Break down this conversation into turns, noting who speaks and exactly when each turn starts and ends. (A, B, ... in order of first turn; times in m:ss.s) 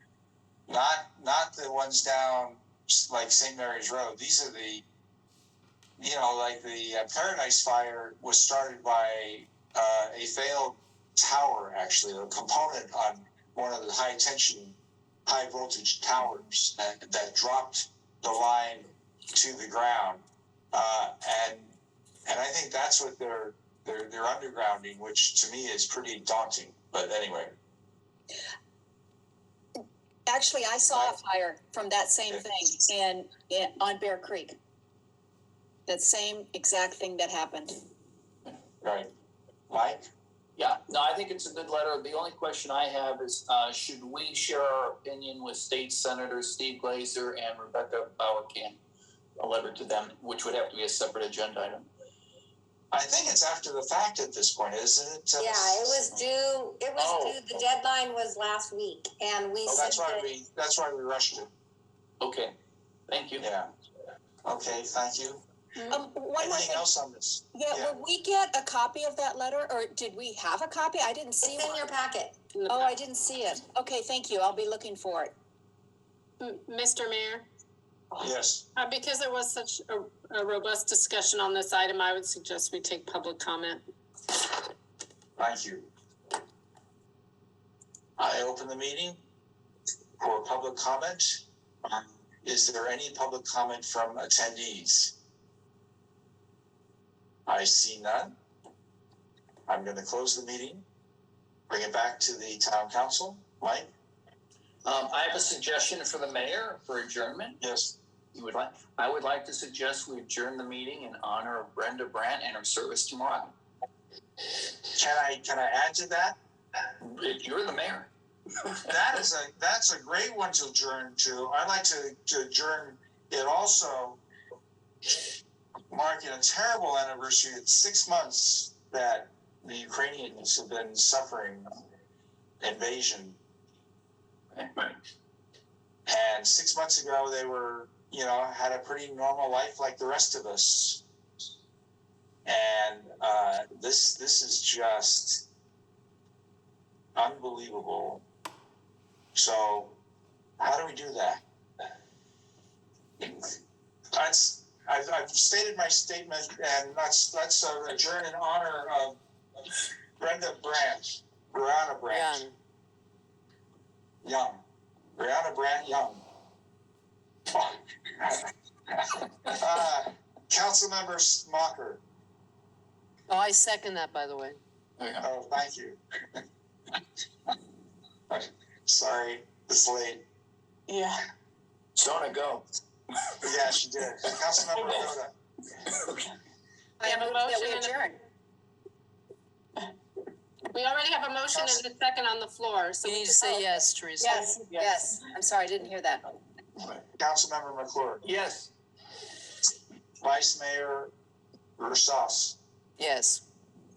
0:00.7-0:04.8 A
0:06.0-0:27.6 A
0:30.3-0:34.6 B
0:35.9-0:37.8 B
0:38.8-0:39.1 A
0:39.7-0:40.1 A
0:40.6-0:48.8 C
0:49.4-0:51.9 C
0:52.9-0:56.1 A
0:55.4-1:00.3 D
0:57.0-0:57.4 C
0:59.7-1:01.5 A
1:02.2-1:02.6 C
1:03.1-1:03.5 C
1:03.4-1:03.7 A
1:04.4-1:05.4 A
1:05.9-1:06.9 B
1:06.4-1:08.0 A
1:07.5-1:11.8 B
1:11.4-1:12.4 D
1:12.5-1:12.9 E
1:12.7-1:15.3 B
1:16.4-1:17.4 E
1:18.2-1:18.6 A
1:18.8-1:23.8 E
1:25.4-1:25.9 A
1:28.2-1:29.2 A
1:30.2-1:35.1 A
1:37.4-1:38.4 A
1:39.7-1:40.8 A
1:41.7-1:43.9 A
1:44.8-1:47.6 C
1:47.6-1:48.0 A
1:48.3-1:53.5 C
1:54.9-1:56.4 A
1:57.0-1:58.1 C
1:58.6-1:59.2 C
1:58.9-2:04.2 A
2:05.9-2:11.7 A
2:12.6-2:13.4 A
2:14.5-2:15.0 C
2:16.0-2:21.0 A
2:22.4-2:25.4 A
2:27.1-2:28.2 A
2:29.3-2:30.0 A
2:30.6-2:31.4 A
2:33.2-2:33.5 A
2:34.1-2:39.2 A
2:40.2-2:42.5 A
2:42.1-2:42.5 F
2:44.2-2:44.6 A
2:45.2-2:46.2 A
2:47.5-2:52.0 A
2:53.3-2:54.6 F
2:55.0-2:55.2 C
2:55.2-2:56.4 A
2:58.3-3:00.2 A
3:02.0-3:02.6 C
3:03.4-3:05.3 A
3:04.7-3:05.1 C
3:05.9-3:06.2 C
3:07.0-3:08.1 E
3:07.0-3:08.0 D
3:07.0-3:07.7 B
3:10.7-3:14.9 E
3:11.5-3:11.8 A
3:13.0-3:14.5 F
3:14.2-3:16.4 B
3:17.2-3:18.3 A
3:18.2-3:18.7 C
3:20.2-3:21.1 A
3:21.8-3:22.6 A
3:23.0-3:23.4 F